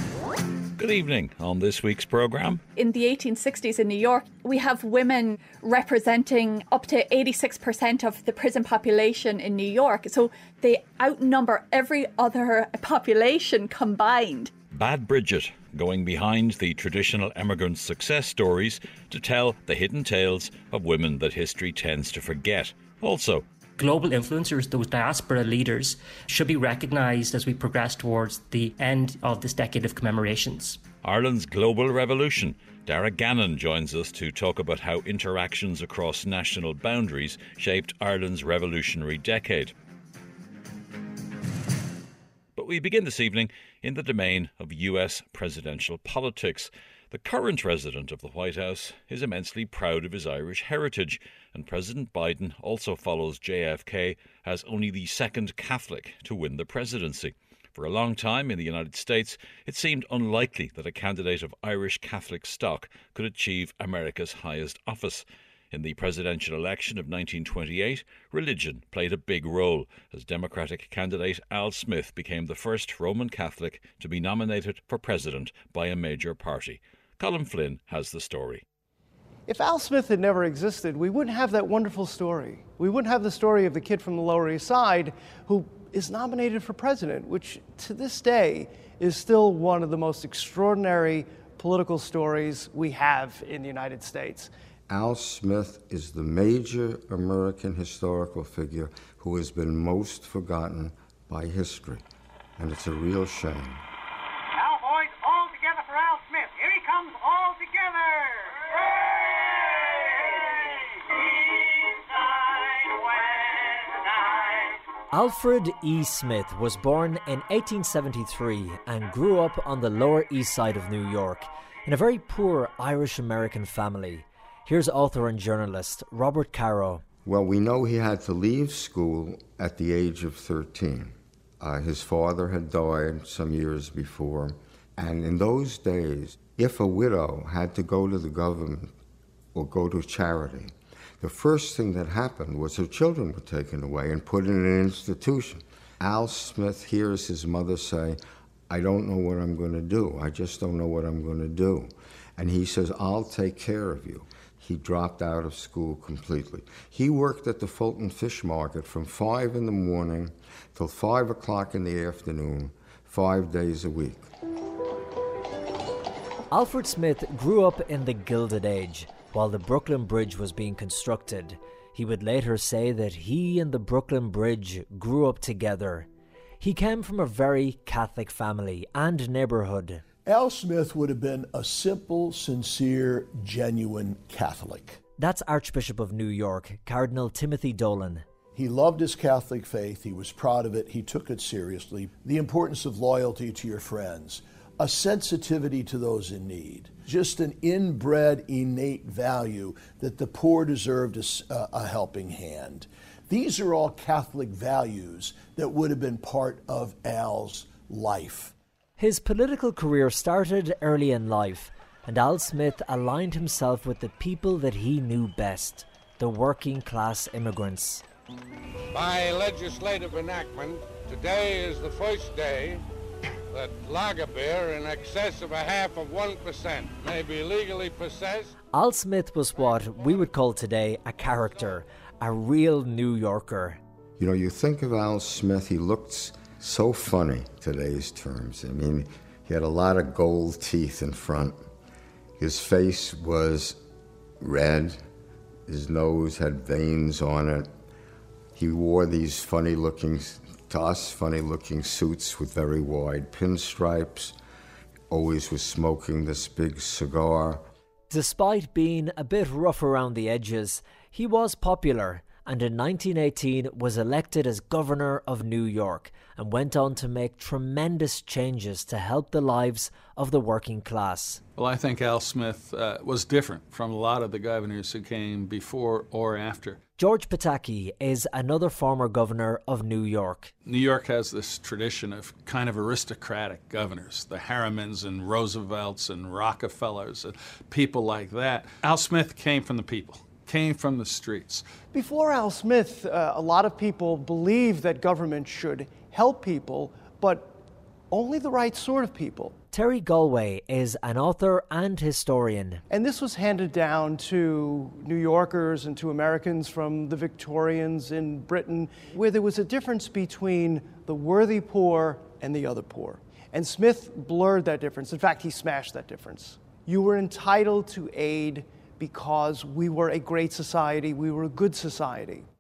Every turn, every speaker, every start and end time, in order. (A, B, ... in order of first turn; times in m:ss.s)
0:00.8-0:02.6 A
0:02.8-0:14.5 B
0:14.7-0:23.4 A
0:23.8-0:30.8 C
0:31.0-0:39.7 A
0:42.6-1:18.6 A
1:19.5-1:34.5 D
1:34.9-1:42.0 E
1:42.6-1:43.8 E
1:44.5-1:50.7 F
1:52.2-1:53.0 F
1:55.1-2:07.0 G
2:07.2-2:18.9 E
2:19.6-2:44.3 E
2:46.5-2:56.1 G
2:56.6-3:00.0 G
3:00.3-3:05.0 H
3:05.2-3:08.2 G
3:08.6-3:28.5 H
3:29.0-3:38.0 G
3:38.9-3:42.8 F
3:43.5-3:48.5 F
3:48.7-3:53.8 G
3:54.2-4:01.6 E
4:02.4-4:03.8 E
4:04.4-4:05.0 E
4:05.7-4:07.7 E
4:08.6-4:14.4 E
4:15.1-4:17.6 E
4:18.1-4:31.4 G
4:31.6-4:36.8 I
4:37.0-4:40.5 G
4:40.6-4:51.6 I
4:51.9-4:57.6 D
4:58.1-4:59.6 D
4:59.7-5:02.8 G
5:02.9-5:22.5 D